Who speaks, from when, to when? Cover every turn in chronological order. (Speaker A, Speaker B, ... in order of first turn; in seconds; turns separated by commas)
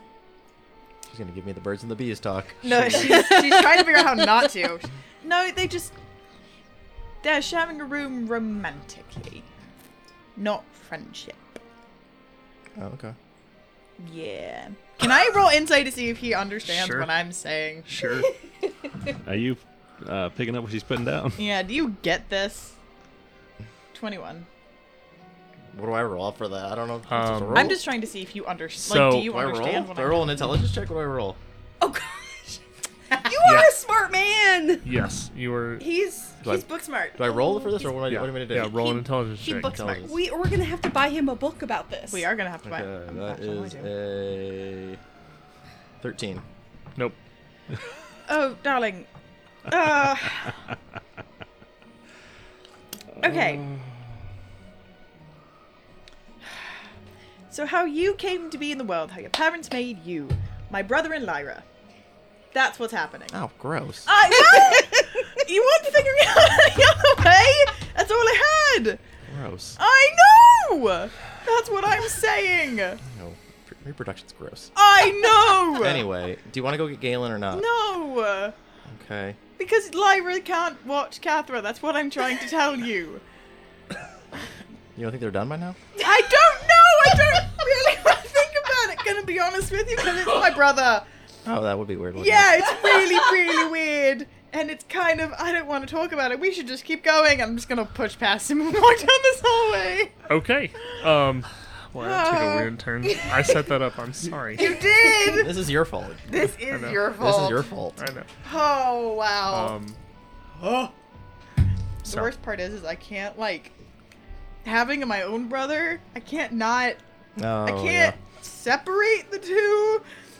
Speaker A: 1.1-3.3, Speaker B: 2.6-6.0, Speaker C: 3.0-4.1, Speaker B: 7.2-9.5, Speaker B: 10.4-11.6, Speaker A: 12.8-13.2, Speaker B: 14.0-17.9, Speaker D: 16.7-17.1, Speaker D: 17.9-18.3, Speaker E: 19.2-21.5, Speaker B: 21.4-22.8, Speaker B: 23.9-24.5, Speaker A: 25.7-27.8, Speaker D: 27.1-27.8, Speaker B: 27.5-30.4, Speaker D: 28.8-29.3, Speaker A: 29.2-31.4, Speaker C: 31.8-34.9, Speaker B: 33.1-33.4, Speaker D: 33.4-33.7, Speaker D: 34.8-35.9, Speaker C: 35.8-36.3, Speaker B: 36.0-37.7, Speaker A: 36.4-38.8, Speaker D: 38.1-39.8, Speaker B: 38.7-40.1, Speaker A: 39.6-40.1, Speaker C: 40.0-42.3, Speaker B: 42.1-43.9, Speaker A: 42.7-45.0, Speaker A: 46.0-46.5, Speaker B: 48.2-49.1, Speaker B: 49.7-50.7, Speaker B: 53.2-53.7, Speaker E: 53.3-53.8, Speaker B: 56.4-56.8, Speaker B: 57.5-61.7, Speaker B: 62.5-63.4, Speaker A: 63.3-64.1, Speaker B: 64.1-69.0, Speaker A: 69.3-69.8, Speaker B: 69.8-73.0, Speaker A: 73.0-74.7, Speaker B: 74.8-76.1, Speaker A: 75.7-77.7, Speaker B: 77.5-78.6, Speaker A: 78.8-79.4, Speaker B: 79.6-83.2, Speaker A: 85.0-85.8, Speaker B: 86.0-91.1, Speaker A: 91.5-92.9, Speaker B: 92.2-100.1, Speaker D: 100.3-104.7, Speaker B: 102.0-103.5, Speaker B: 104.5-105.6, Speaker A: 105.2-106.4, Speaker B: 106.3-107.7, Speaker D: 106.7-107.2, Speaker A: 107.0-108.0, Speaker D: 108.0-108.3, Speaker B: 108.4-109.8, Speaker D: 109.5-110.0, Speaker B: 110.5-110.9, Speaker B: 112.0-113.7, Speaker D: 112.0-112.3, Speaker B: 114.6-117.0, Speaker A: 117.4-118.2, Speaker B: 117.6-120.0